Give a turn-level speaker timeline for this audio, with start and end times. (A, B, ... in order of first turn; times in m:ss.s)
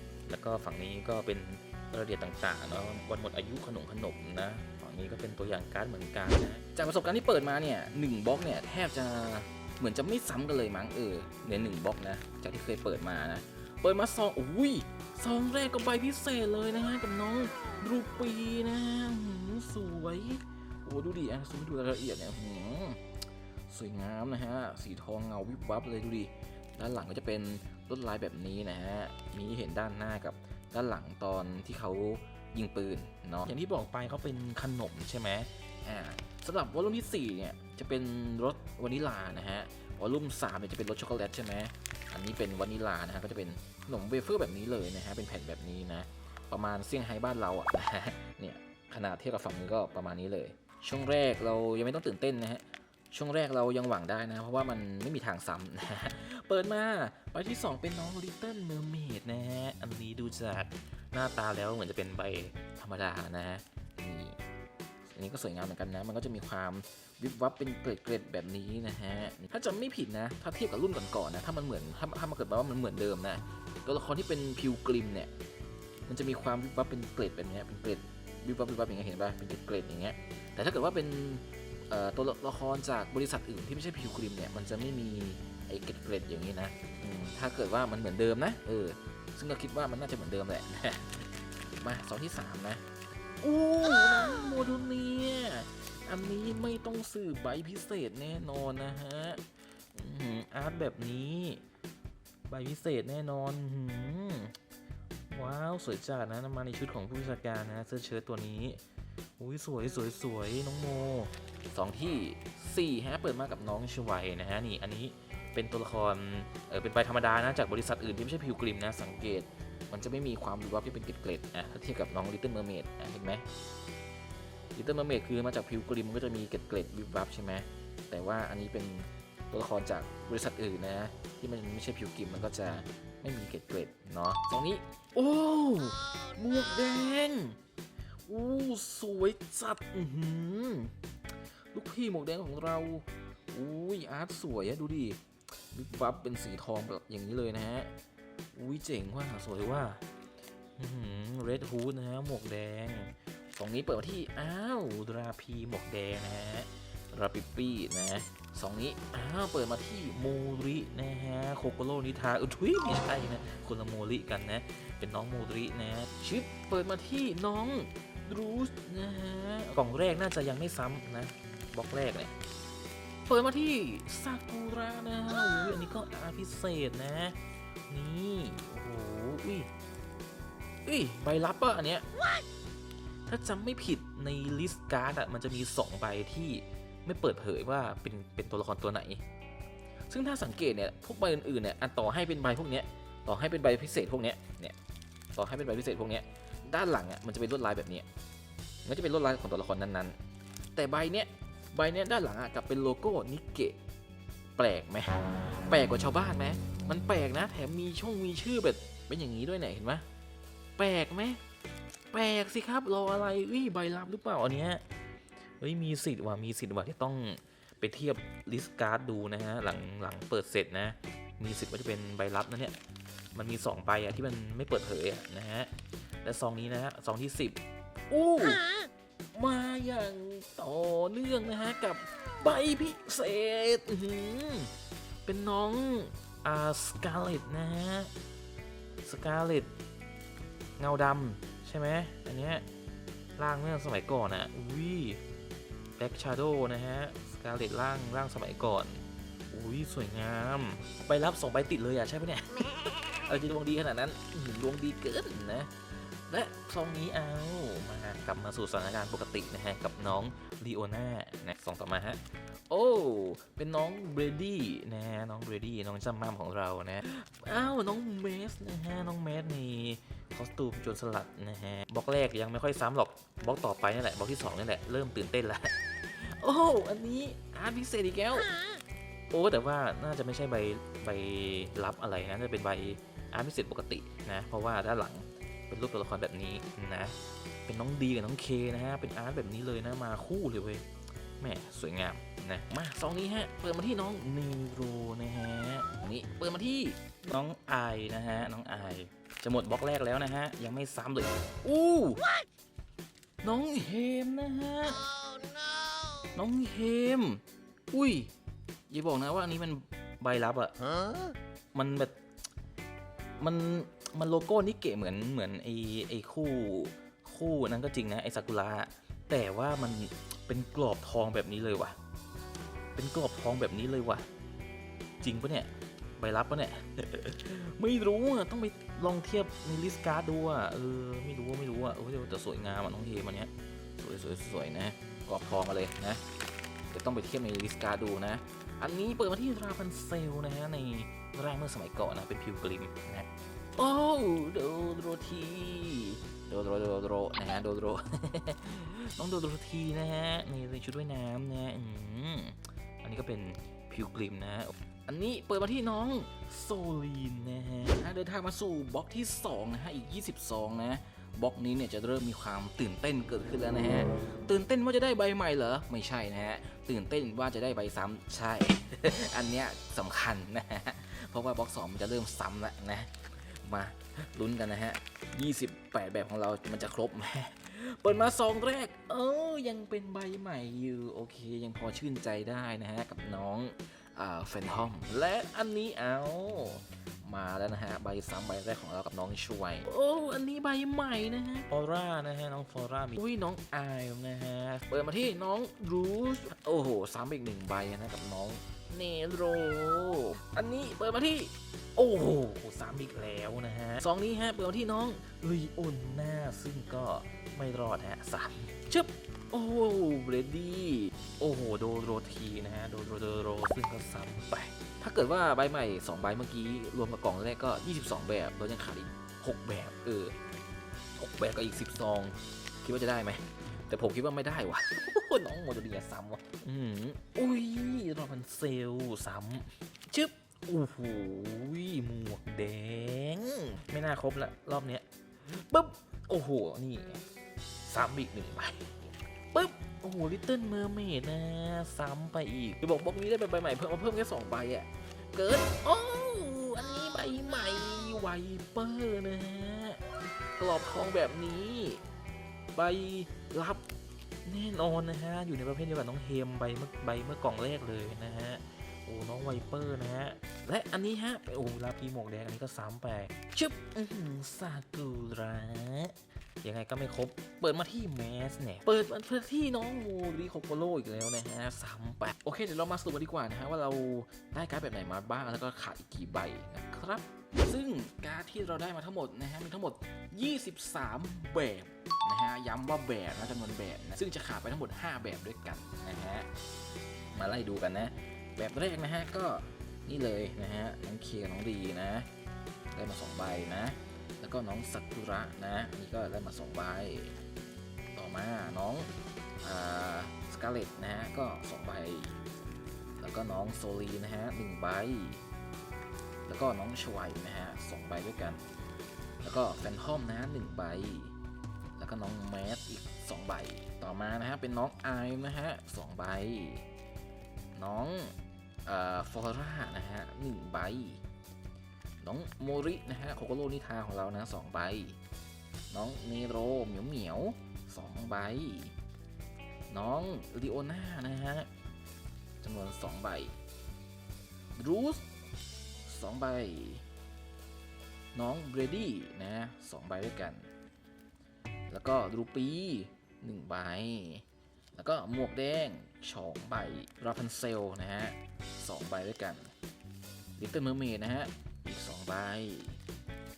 0:00.3-0:23.0 A
0:23.7-1:04.4 A
1:05.1-1:15.3 A
1:16.1-1:32.8 A
1:33.4-1:41.6 A
1:42.5-1:44.5 A
1:45.3-1:48.8 A
1:49.4-2:03.4 A
2:04.8-2:17.6 A
2:18.3-2:20.9 A
2:21.7-2:27.9 A
2:28.5-2:30.0 A
2:30.8-2:52.3 A
2:53.3-2:57.4 A
2:57.9-2:59.7 A
3:00.9-3:02.0 A
3:03.3-3:09.2 A
3:10.1-3:14.8 A
3:15.4-3:18.0 A
3:18.8-3:20.2 A
3:20.7-3:23.8 A
3:24.6-3:30.0 A
3:30.8-3:31.4 A
3:32.1-3:34.8 A
3:35.6-3:42.8 A
3:43.3-3:45.7 A
3:46.2-3:48.7 A
3:49.3-3:54.7 A
3:55.2-3:58.1 A
3:59.0-3:59.7 A
4:00.8-4:02.6 A
4:03.4-4:05.2 A
4:06.0-4:15.7 A
4:16.3-4:38.6 A
4:39.3-4:47.1 A
4:47.6-4:50.8 A
4:51.4-5:02.2 A
5:03.4-5:05.0 A
5:06.3-5:08.3 A
5:08.9-5:10.7 A
5:11.7-5:12.1 A
5:13.4-5:22.0 A
5:23.0-5:24.2 A
5:25.2-5:36.2 A
5:36.9-7:00.4 A
7:01.2-7:17.2 A
7:17.8-7:30.0 A
7:30.6-7:32.0 A
7:32.7-7:33.8 A
7:34.4-8:06.5 A
8:07.3-8:12.3 A
8:12.9-8:17.4 A
8:18.1-8:19.1 A
8:19.6-8:22.4 A
8:23.2-8:25.4 A
8:26.4-8:28.6 A
8:29.4-8:31.3 A
8:32.0-8:36.8 A
8:37.8-8:38.3 A
8:38.8-8:41.2 A
8:42.2-8:45.2 A
8:45.9-8:48.9 A
8:49.9-8:51.7 A
8:52.6-8:53.5 A
8:54.8-8:55.2 A
8:56.0-8:57.0 A
8:58.3-9:00.7 A
9:01.9-9:09.7 A
9:10.6-9:13.0 A